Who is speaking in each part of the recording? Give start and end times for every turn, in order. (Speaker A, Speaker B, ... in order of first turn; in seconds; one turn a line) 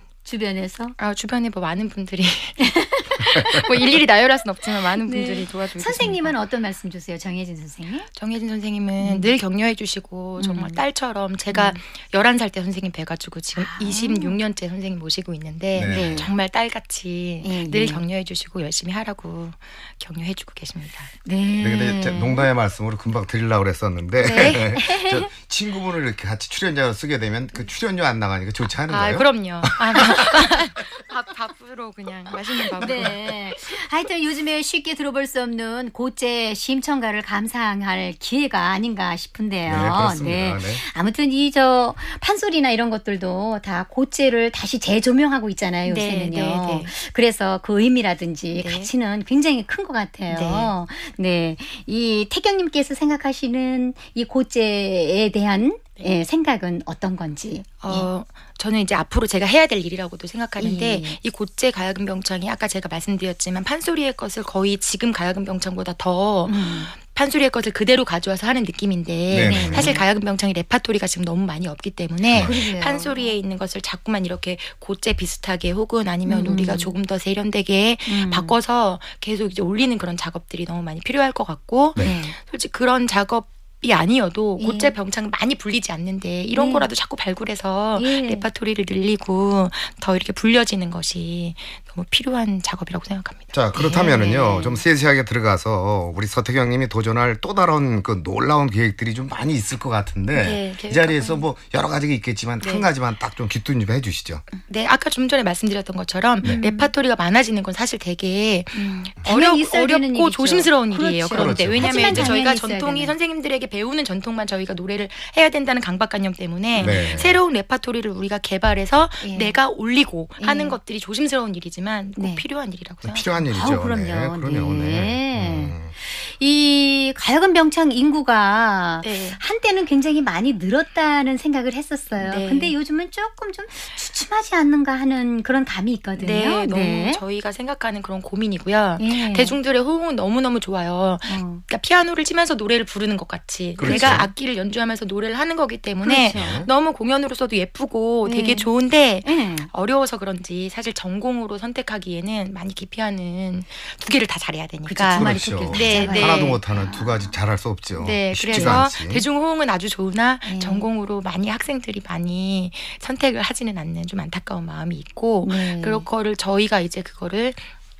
Speaker A: 0.2-0.9
Speaker B: 1.0-2.7
Speaker A: 2.6-3.6
Speaker B: 3.3-6.3
Speaker A: 5.0-8.1
Speaker B: 8.2-21.1
Speaker A: 9.0-9.3
Speaker A: 10.4-10.8
Speaker A: 11.5-11.8
Speaker A: 13.5-14.4
Speaker C: 15.7-16.3
Speaker A: 15.9-16.3
Speaker A: 17.4-18.0
Speaker A: 21.2-22.5
Speaker C: 21.6-30.4
Speaker B: 24.2-24.8
Speaker A: 24.2-25.3
Speaker B: 28.9-33.4
Speaker C: 32.8-33.2
Speaker A: 32.8-58.1
Speaker C: 39.6-40.8
Speaker B: 45.8-46.9
Speaker B: 48.5-48.9
Speaker B: 50.3-50.7
Speaker B: 57.8-93.5
Speaker A: 60.6-61.2
Speaker A: 66.5-66.9
Speaker C: 69.3-69.9
Speaker A: 69.4-70.1
Speaker A: 72.3-73.3
Speaker C: 72.3-72.6
Speaker A: 76.2-76.9
Speaker A: 78.1-78.5
Speaker A: 82.0-82.4
Speaker A: 84.6-84.9
Speaker A: 86.5-86.9
Speaker A: 88.0-88.4
Speaker C: 93.5-104.4
Speaker A: 93.7-94.8
Speaker B: 100.3-101.5
Speaker B: 102.6-102.9
Speaker B: 104.7-123.4
Speaker A: 106.4-106.9
Speaker A: 108.8-113.1
Speaker C: 111.3-112.4
Speaker A: 116.7-117.3
Speaker C: 116.8-117.4
Speaker A: 119.2-119.6
Speaker A: 120.4-120.8
Speaker A: 122.2-122.4
Speaker C: 123.0-125.9
Speaker A: 123.5-137.2
Speaker B: 129.0-129.4
Speaker B: 132.2-132.7
Speaker B: 136.2-156.6
Speaker A: 139.0-139.6
Speaker A: 141.3-141.6
Speaker C: 143.8-144.3
Speaker A: 143.8-144.3
Speaker A: 146.0-146.6
Speaker C: 146.3-146.7
Speaker A: 148.2-148.7
Speaker A: 149.2-149.7
Speaker A: 154.8-157.3
Speaker C: 155.1-159.2
Speaker B: 157.9-167.7
Speaker A: 158.5-158.8
Speaker A: 160.4-160.8
Speaker A: 165.4-166.1